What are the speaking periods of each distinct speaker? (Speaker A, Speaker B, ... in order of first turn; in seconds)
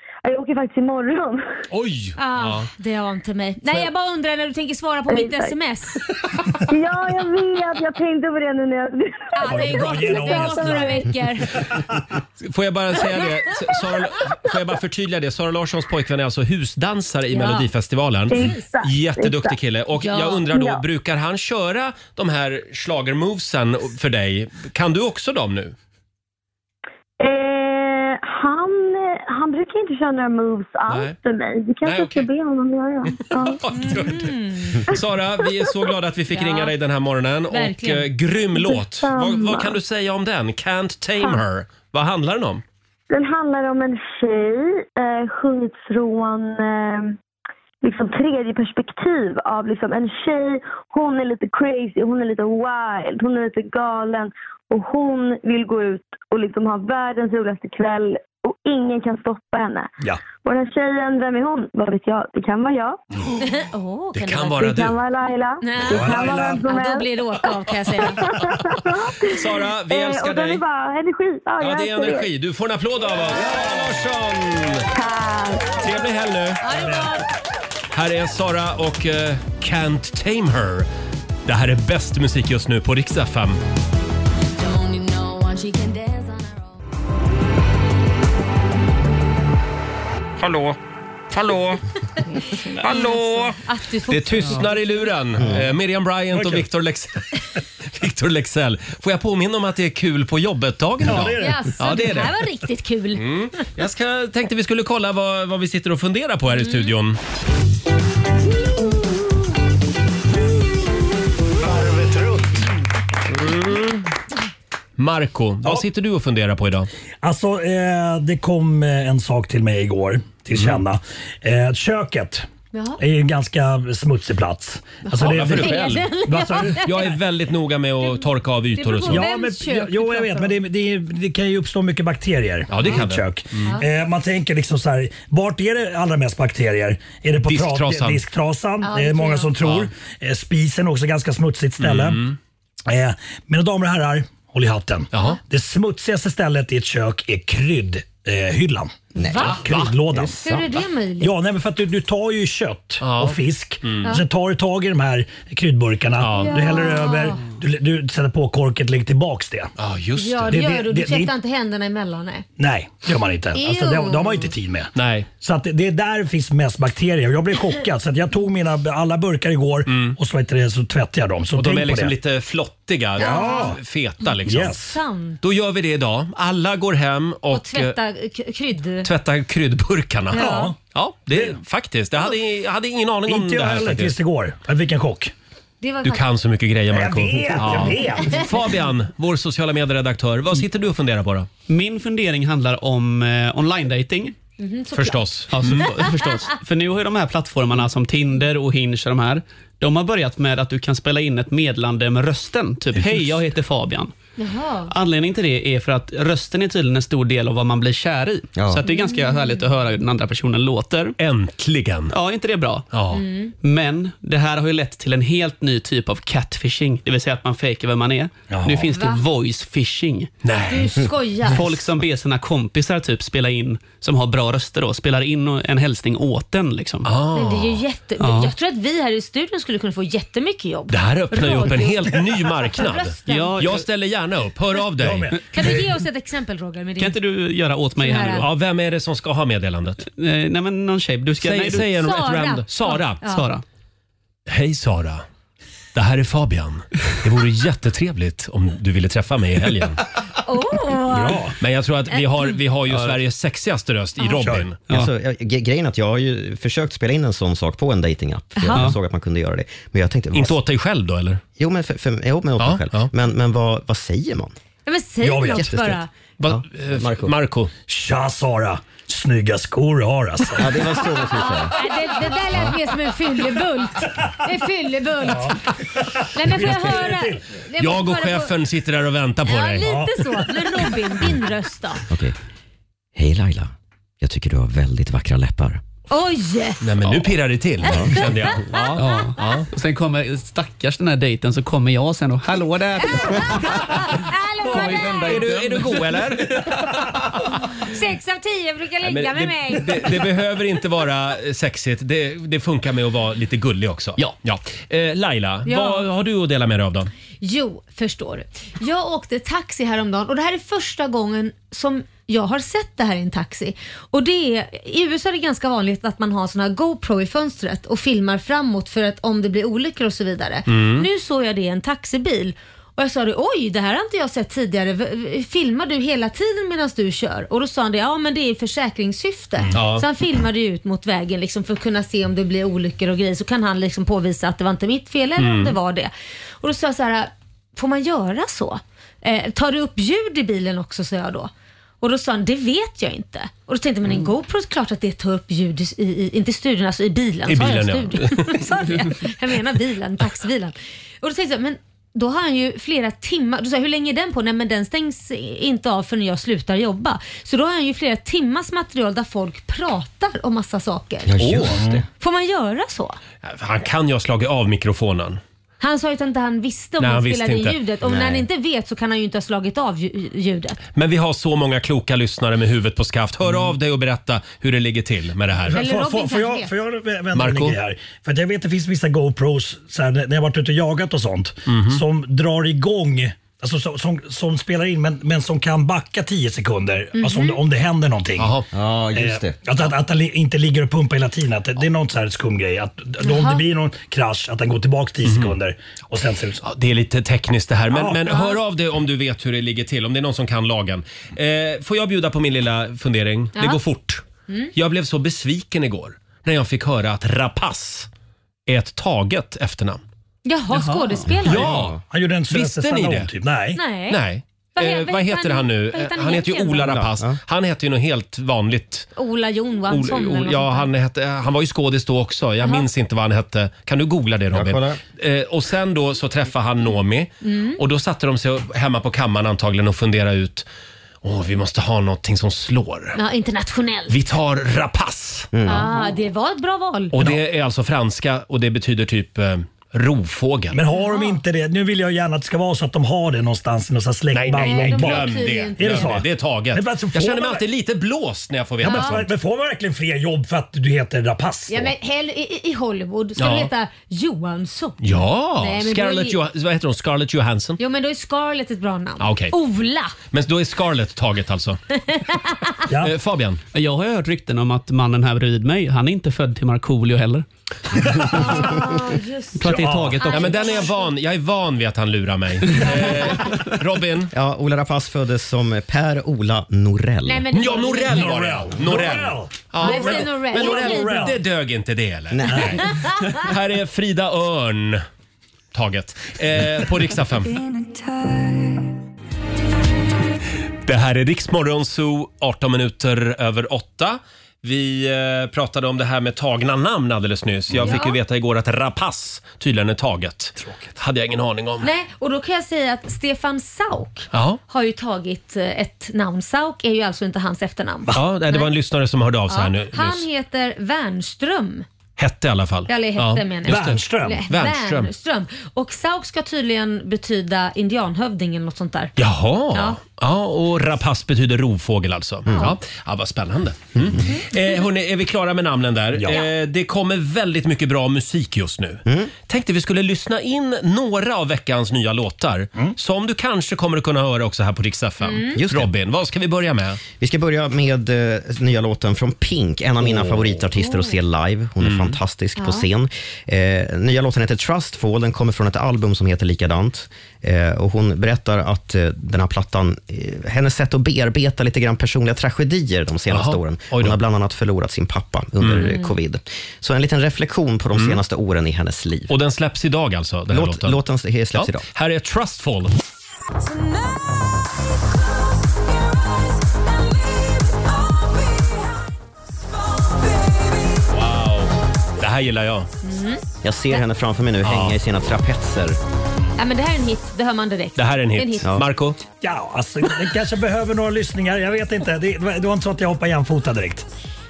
Speaker A: 0.2-1.4, 5.1-5.5, 6.7-10.9, 18.3-19.5, 20.5-20.8, 27.2-33.6, 38.5-39.7, 43.1-47.2, 47.8-63.0, 64.5-67.1, 68.0-72.3, 74.9-75.9
Speaker B: 1.7-2.7, 12.4-25.7, 30.9-31.1, 31.8-32.2, 33.3-42.6, 64.1-65.0, 69.3-70.6, 71.6-74.9, 75.8-76.6, 77.9-80.9, 81.5-83.6, 90.4-90.8, 91.3-91.8, 92.8-93.5, 94.1-97.2, 97.9-102.3, 103.1-107.2, 113.3-114.0, 115.0-116.9, 125.1-126.1, 126.8-129.3, 132.7-133.7, 137.4-138.2, 139.6-139.9, 141.8-142.3, 153.0-154.1, 156.2-156.7, 159.8-160.6, 164.9-165.3, 169.9-170.2, 171.6-174.8, 175.4-177.9, 179.0-184.2, 186.0-191.5, 194.9-195.9, 211.2-212.1, 212.9-213.2, 220.4-221.0, 227.0-227.8, 230.9-235.3, 238.3-240.0, 241.4-243.2, 244.5-245.2, 245.9-250.0, 251.6-254.8, 260.3-261.4, 262.6-263.1, 266.4-267.7, 277.8-279.9, 286.8-289.7, 294.8-296.8, 299.0-307.1, 320.7-321.1, 329.7-330.0, 335.4-335.7, 347.5-348.6, 361.4-361.7, 363.4-365.4, 367.0-367.8, 370.9-375.8, 377.3-377.8, 381.7-382.0, 388.4-388.6, 395.2-395.5, 396.6-404.2, 404.7-408.1, 408.7-410.0, 411.4-412.0, 412.5-413.3, 414.1-419.1, 419.9-430.7, 431.2-433.2, 434.1-435.5, 437.1-440.8, 444.3-449.3, 453.4-453.7, 455.0-457.8, 459.2-459.5, 460.3-461.8, 463.0-463.6, 470.2-474.3, 477.5-485.0, 485.7-487.6, 490.9-501.9, 504.3-504.6, 508.1-510.2, 512.2-515.1, 519.2-537.0, 541.8-542.1, 553.3-554.2, 555.6-555.9, 557.9-558.2, 559.3-561.0, 561.5-562.9, 571.1-572.9, 574.6-575.0, 578.0-579.2
Speaker C: 2.2-6.0, 9.3-11.6, 17.3-17.7, 18.3-18.6, 20.0-20.4, 33.7-34.8, 36.3-36.7, 37.5-38.0, 63.4-64.6, 65.6-68.3, 76.6-77.2, 92.4-95.1, 101.4-103.2, 106.6-106.9, 122.7-123.0, 125.1-127.2, 128.8-130.6, 138.8-139.5, 149.3-149.6, 150.3-151.3, 156.3-157.4, 160.2-162.4, 163.5-164.5, 173.2-173.7, 174.7-175.4, 177.5-179.1, 180.3-180.7, 185.8-186.2, 194.6-195.2, 204.4-204.9, 208.8-209.6, 213.1-213.5, 218.9-219.2, 220.7-221.7, 227.3-233.7, 235.5-237.2, 238.0-238.4, 241.9-243.4, 250.4-251.4, 252.1-252.6, 258.6-258.9, 264.9-266.1, 271.4-275.6, 276.3-278.5, 279.4-282.0, 286.1-286.8, 287.9-289.2, 293.0-295.5, 297.8-300.0, 305.7-306.0, 307.4-361.4, 362.2-363.2, 365.8-370.8, 375.7-376.7, 387.2-387.6, 393.2-393.6, 410.4-411.7, 413.7-414.2, 414.8-417.0, 419.1-420.9, 427.4-427.8, 433.1-434.1, 435.6-437.1, 440.9-441.4, 444.5-446.2, 448.8-449.2, 451.7-456.4, 457.8-460.1, 462.1-462.6, 468.3-471.1, 477.2-478.4, 479.8-481.3, 482.8-483.2, 497.8-498.2, 501.8-508.7, 509.5-511.9, 512.9-519.1, 535.2-535.6, 542.6-542.8, 555.8-556.1, 573.0-574.0, 576.6-578.7
Speaker D: 9.4-11.1, 65.8-66.6, 76.7-77.1, 96.3-96.7, 101.0-102.2, 111.6-112.6, 117.2-122.5, 123.0-126.9, 129.0-142.2, 142.9-150.5, 151.2-159.7, 160.5-161.3, 162.6-164.9, 165.4-172.1, 173.2-173.8, 174.4-174.9, 180.3-180.8, 183.3-185.3, 186.9-188.6, 218.5-218.8, 235.0-235.9, 251.1-251.6, 254.4-254.7, 265.2-265.7, 267.9-270.8, 275.2-277.4, 279.8-280.5, 361.7-362.0, 375.6-388.5, 389.1-396.6, 397.9-398.5, 411.5-413.8, 440.7-447.6, 448.8-451.9, 462.9-463.1, 468.0-468.7, 469.6-470.2, 478.1-481.4, 482.5-482.8, 513.7-514.4, 526.1-526.4, 579.4-584.1
Speaker E: 84.6-86.5, 487.6-488.7, 563.6-569.1, 569.7-571.1
Speaker F: 149.2-150.3, 208.6-208.8, 254.9-260.6, 261.6-264.5, 265.5-267.3, 270.6-271.7, 282.1-282.3, 283.1-285.8, 287.8-288.1, 361.3-362.0, 368.0-368.4, 388.7-389.5, 411.5-412.0, 416.9-417.3, 424.5-425.0, 435.5-435.9, 474.3-477.5, 482.3-482.7, 529.0-529.3, 535.6-535.9, 537.2-559.3, 560.5-561.8, 573.6-576.0
Speaker G: 191.7-194.3, 195.5-204.1, 204.9-211.2, 212.1-212.9, 213.6-220.3, 221.5-227.1, 228.2-228.5, 233.2-233.8, 237.0-238.5, 240.0-241.9, 243.2-243.6, 288.9-293.8, 294.8-295.6, 410.7-411.2, 463.7-467.4, 469.6-470.6